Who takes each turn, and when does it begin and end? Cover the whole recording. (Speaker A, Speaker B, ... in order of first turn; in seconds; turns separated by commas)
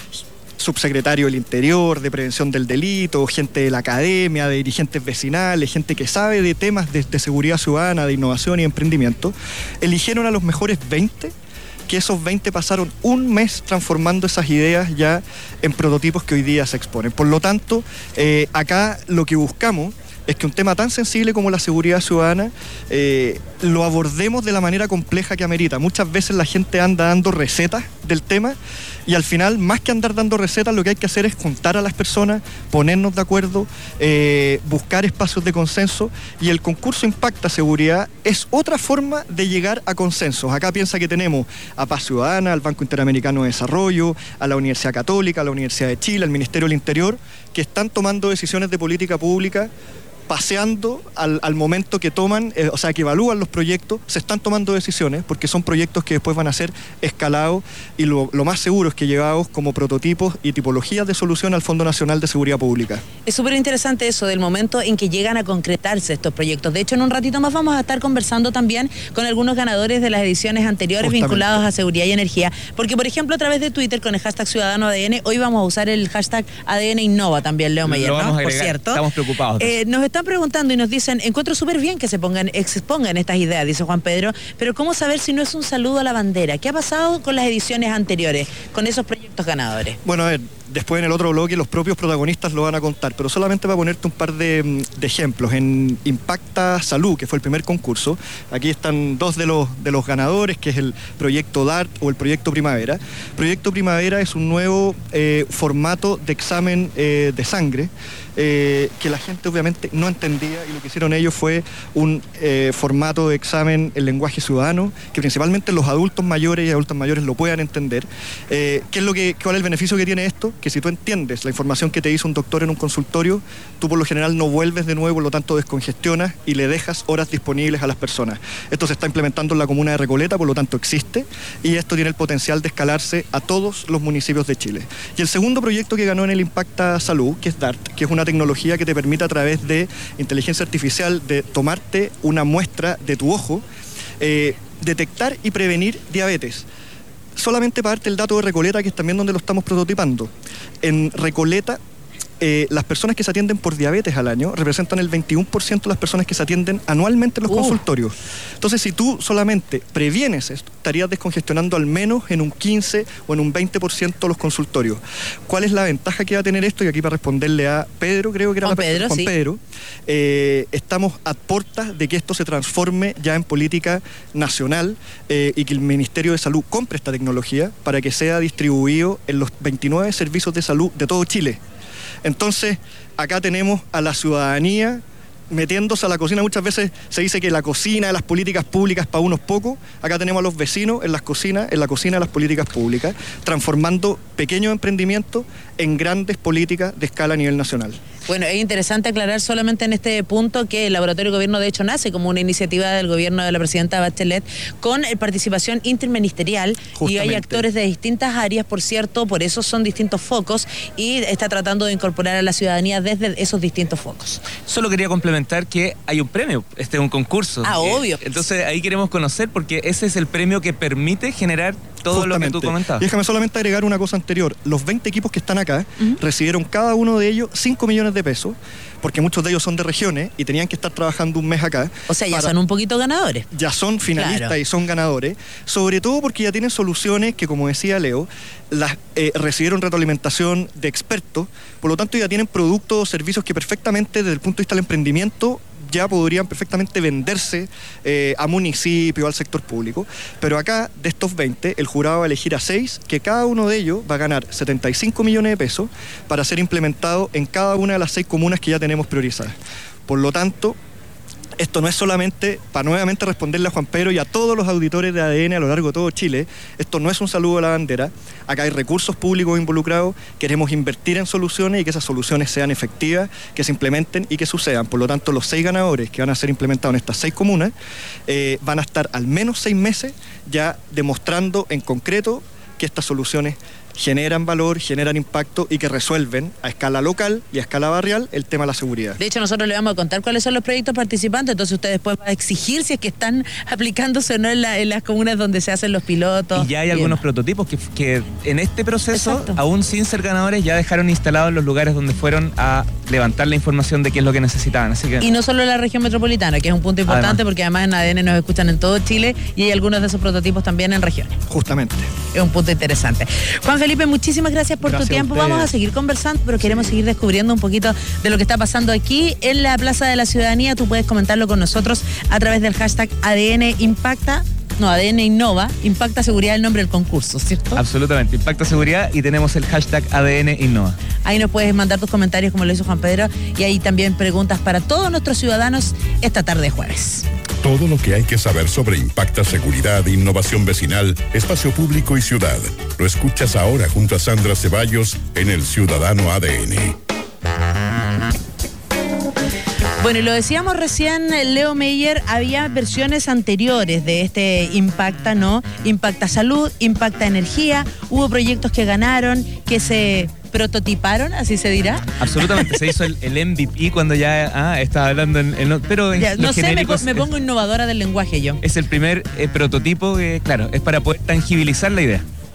Speaker A: 0.6-11.3, Speaker A: 11.9-49.7, Speaker A: 50.3-63.0, Speaker B: 63.2-90.0, Speaker A: 71.0-71.6, Speaker C: 77.8-79.8, Speaker A: 90.0-143.7, Speaker A: 144.2-146.7, Speaker A: 147.4-150.3, Speaker A: 150.8-151.8, Speaker A: 152.4-181.6, Speaker B: 157.5-157.8, Speaker B: 168.6-169.3, Speaker A: 182.2-198.0, Speaker B: 198.3-214.4, Speaker A: 207.0-207.7, Speaker C: 214.6-223.1, Speaker B: 217.6-218.4, Speaker A: 222.1-232.5, Speaker B: 232.1-233.5, Speaker A: 233.5-259.5, Speaker B: 234.2-234.5, Speaker A: 260.1-260.8, Speaker A: 261.6-277.7, Speaker A: 278.3-289.2, Speaker B: 289.2-297.2, Speaker C: 296.5-305.3, Speaker B: 299.1-299.6, Speaker B: 305.2-311.4, Speaker C: 307.1-307.4, Speaker A: 311.5-312.1, Speaker B: 312.3-327.8, Speaker A: 314.8-315.7, Speaker C: 327.8-331.0, Speaker B: 331.2-337.3, Speaker D: 337.6-347.0, Speaker B: 350.0-362.8, Speaker C: 362.2-367.3, Speaker B: 366.1-368.6, Speaker C: 368.6-372.2